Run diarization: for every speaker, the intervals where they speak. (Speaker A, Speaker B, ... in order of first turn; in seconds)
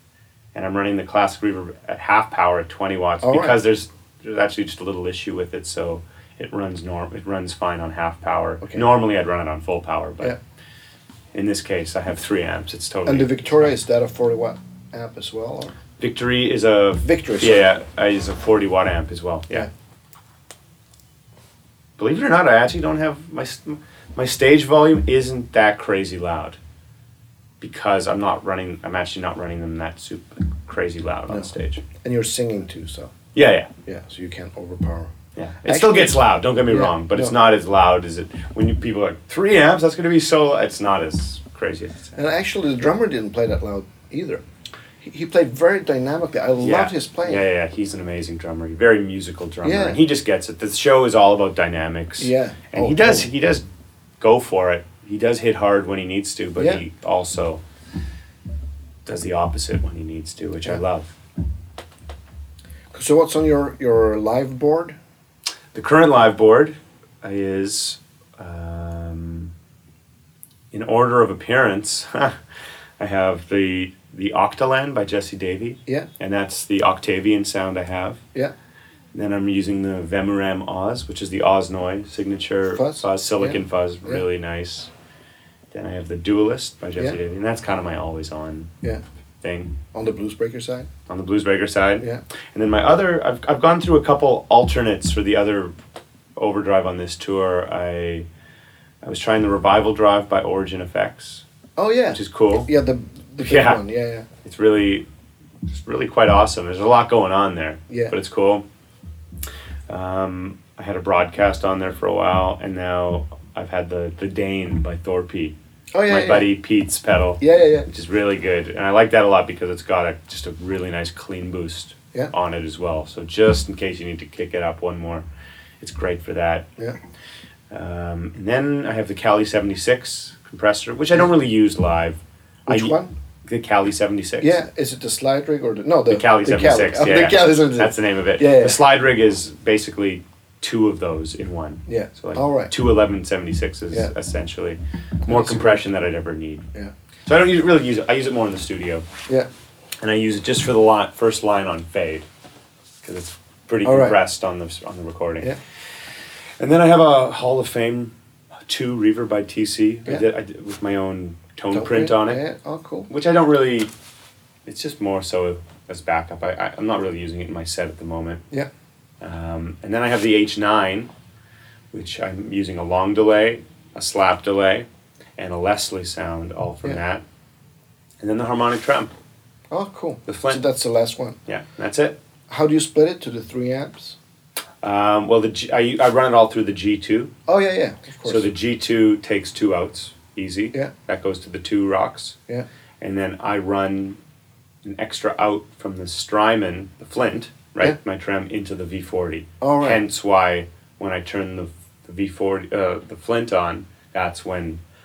Speaker A: 0.5-10.4, 11.3-13.7, 16.0-19.7, 22.0-26.6, 27.6-31.8, 33.3-33.7, 35.4-42.2, 46.6-53.7, 54.2-57.6, 59.0-61.1, 65.7-69.5, 70.7-72.4, 73.0-78.2, 79.1-84.9, 85.7-88.7, 89.4-89.8, 91.1-95.7, 96.4-98.3, 99.0-101.5, 102.1-102.7, 103.4-103.8, 104.4-105.1, 105.7-108.7, 109.9-115.6, 116.1-125.2, 125.8-126.7, 127.7-134.6, 136.1-146.7, 147.3-149.1, 150.0-152.3, 153.0-155.5, 156.6-162.4, 163.1-163.9, 164.7-168.4, 169.2-171.1, 171.9-177.2, 178.2-179.1, 180.3-180.6, 181.5-182.2, 184.8-187.3, 188.2-192.4, 193.0-194.2, 194.8-204.8
Speaker B: 3.2-3.6, 13.1-15.8, 17.0-17.7, 31.3-33.1, 33.9-35.1, 35.7-37.4, 42.2-44.4, 45.0-47.4, 49.6-50.0, 52.2-53.3, 56.6-56.8, 62.9-65.0, 82.8-84.2, 89.9-90.9, 101.8-104.3, 107.9-108.1, 115.9-116.5, 117.4-117.9, 132.7-133.2, 134.4-138.8, 141.9-142.7, 145.3-145.8, 153.8-154.2, 161.7-163.1, 179.7-181.4, 182.5-184.2, 187.5-188.5, 199.6-200.0